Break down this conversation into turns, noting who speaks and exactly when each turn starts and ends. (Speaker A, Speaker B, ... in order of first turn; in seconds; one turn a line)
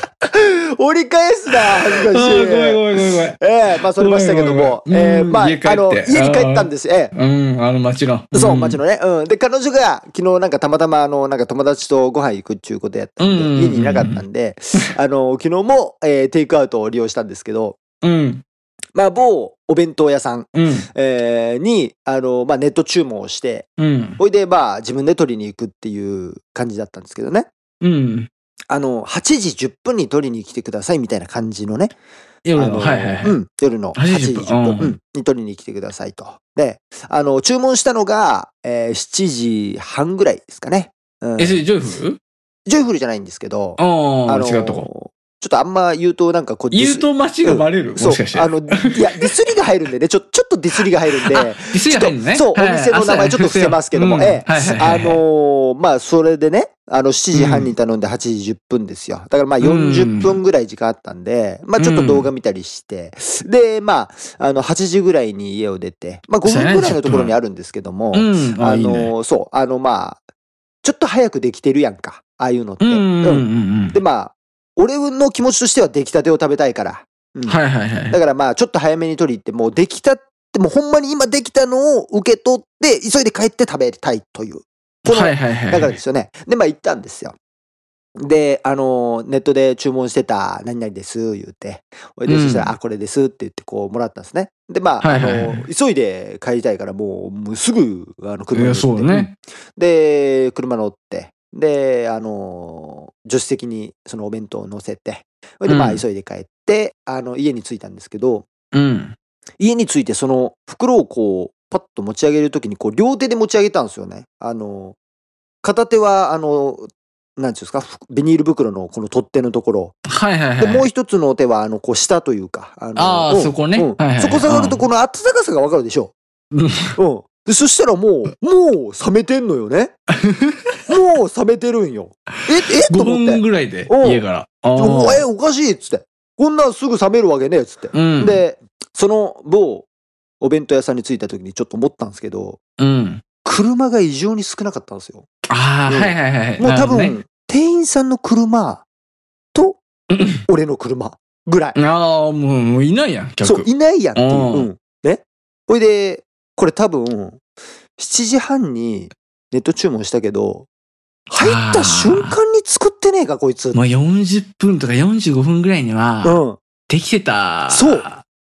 Speaker A: 0.3-7.1
Speaker B: 1.5-3.4
Speaker B: 4.0-8.8
Speaker A: 8.3-17.8
Speaker B: 13.2-14.2
Speaker B: 18.0-18.4
Speaker A: 18.9-27.5
Speaker B: 20.6-20.9
Speaker B: 23.8-24.2
Speaker B: 27.8-28.3
Speaker A: 28.7-31.9
Speaker B: 32.5-33.4
Speaker A: 32.6-41.6
Speaker B: 34.0-35.0
Speaker B: 41.4-42.2
Speaker A: 42.7-70.2
Speaker B: 43.8-44.9
Speaker B: 46.7-49.3
Speaker B: 51.3-55.2
Speaker B: 57.3-57.7
Speaker B: 59.6-60.4
Speaker B: 61.8-62.3
Speaker B: 66.5-67.3
Speaker B: 68.1-69.1
Speaker A: 70.8-77.6
Speaker B: 72.8-74.0
Speaker B: 77.5-78.2
Speaker A: 78.1-87.3
Speaker B: 85.0-86.0
Speaker A: 88.2-108.5
Speaker B: 92.3-92.7
Speaker B: 95.0-95.6
Speaker B: 98.5-99.3
Speaker B: 105.7-106.0
Speaker B: 108.7-109.2
Speaker A: 109.6-115.0
Speaker A: 115.6-120.0
Speaker B: 120.1-120.9
Speaker A: 120.6-126.1
Speaker B: 123.0-124.8
Speaker B: 126.5-127.0
Speaker A: 127.0-129.9
Speaker B: 130.2-130.8
Speaker A: 130.9-134.2
Speaker B: 132.8-135.2
Speaker A: 134.8-139.9
Speaker B: 137.9-138.4
Speaker A: 140.4-142.6
Speaker B: 142.8-143.2
Speaker A: 143.4-145.3
Speaker B: 145.5-147.2
Speaker A: 145.9-148.8
Speaker A: 149.5-149.8
Speaker B: 150.1-150.4
Speaker A: 150.5-151.8
Speaker B: 151.8-154.7
Speaker A: 153.4-157.4
Speaker A: 158.0-160.7
Speaker A: 161.3-163.8
Speaker B: 161.4-162.3
Speaker B: 163.7-168.2
Speaker A: 166.2-166.6
Speaker A: 167.7-168.1